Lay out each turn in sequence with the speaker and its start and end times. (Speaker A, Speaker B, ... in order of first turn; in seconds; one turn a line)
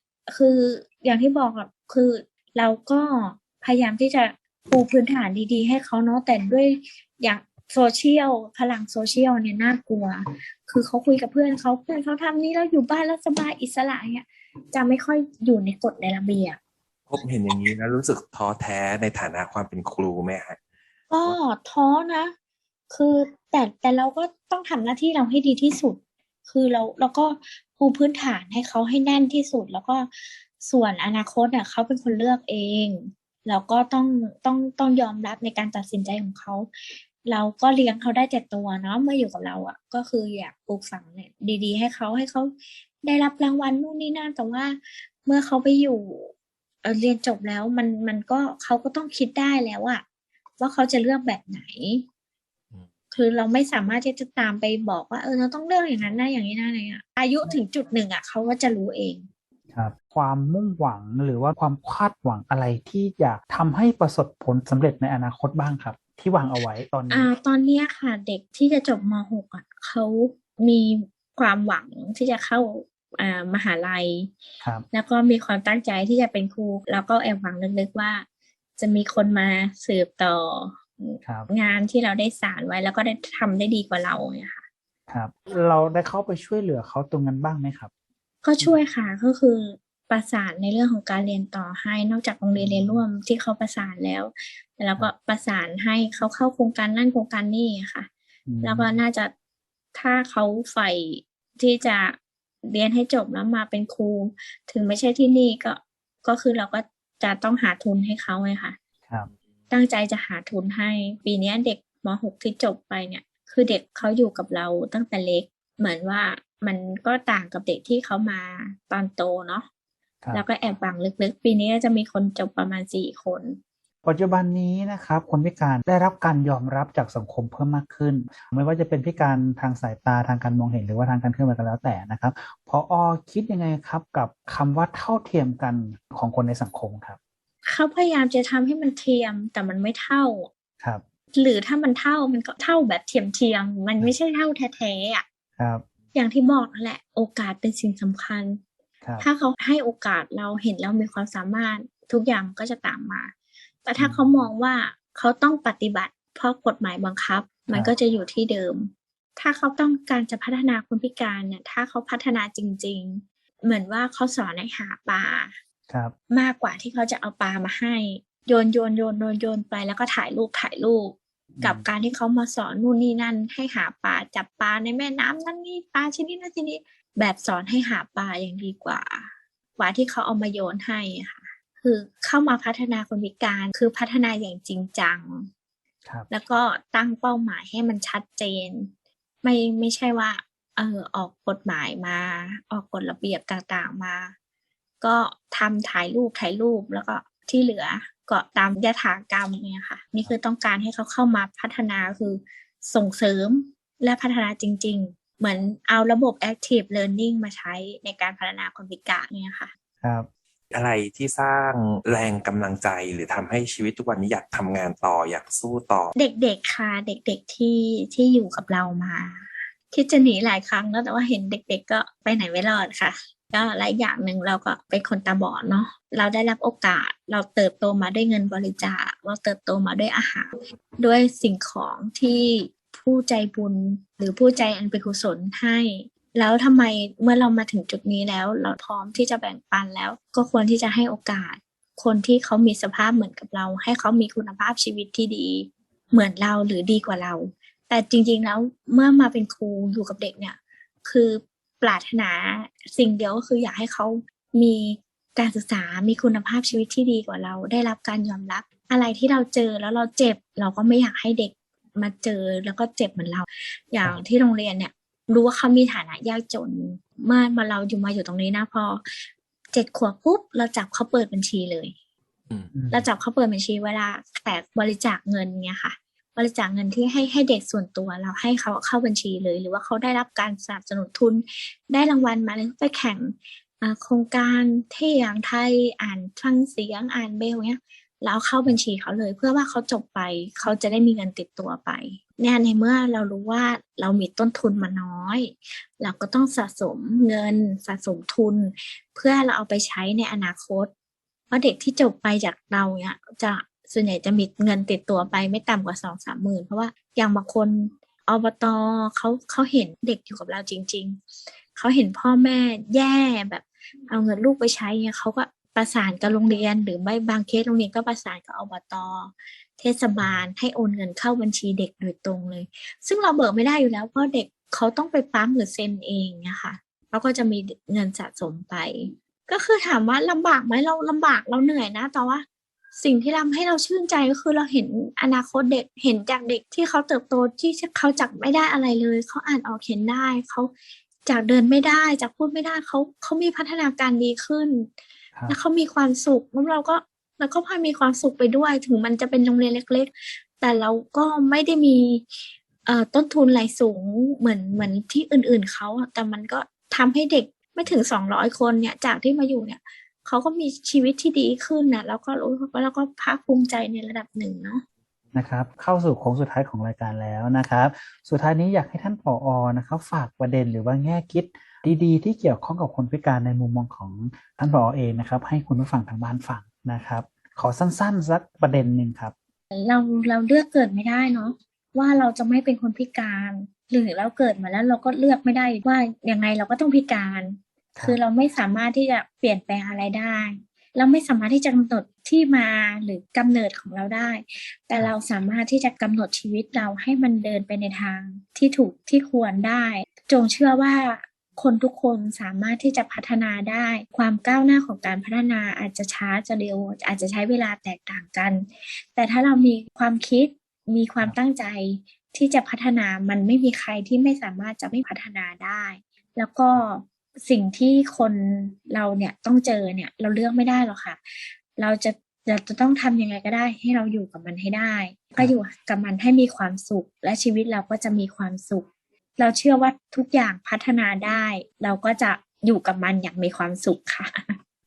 Speaker A: 0.3-16.6
Speaker B: 17.1-20.6
Speaker A: 21.1-22.3
Speaker A: 22.9-36.7
Speaker A: 37.2-46.3
Speaker A: 46.8-50.0
Speaker A: 50.6-52.0
Speaker A: 53.1-59.3
Speaker C: 59.7-67.3
Speaker A: 67.1-74.3
Speaker A: 74.9-78.3
Speaker A: 78.8-84.7
Speaker C: 85.1-87.9
Speaker A: 88.4-98.1
Speaker C: 92.6-93.0
Speaker C: 98.5-99.0
Speaker A: 98.6-99.3
Speaker A: 99.9-108.8
Speaker A: 109.7-119.7
Speaker A: 120.3-123.6
Speaker C: 124.0-137.2
Speaker A: 137.7-140.5
Speaker A: 141.4-145.2
Speaker C: 145.6-145.8
Speaker A: 146.1-148.6
Speaker C: 149.0-149.3
Speaker A: 149.2-153.3
Speaker A: 153.8-165.6
Speaker C: 154.0-154.3
Speaker C: 165.9-166.1
Speaker A: 166.3-185.5
Speaker C: 171.6-171.8
Speaker C: 186.1-186.3
Speaker A: 186.3-188.9
Speaker A: 189.4-194.3
Speaker A: 195.0-209.7
Speaker C: 210.0-210.3
Speaker B: 210.7-216.1
Speaker A: 216.2-271.9
Speaker C: 272.7-273.1
Speaker A: 272.9-300.9
Speaker A: 301.5-311.2
Speaker A: 311.7-332.4
Speaker A: 333.0-340.7
Speaker A: 341.3-344.9
Speaker A: 345.5-364.8
Speaker C: 365.3-379.3
Speaker A: 379.7-428.9
Speaker A: 429.4-434.6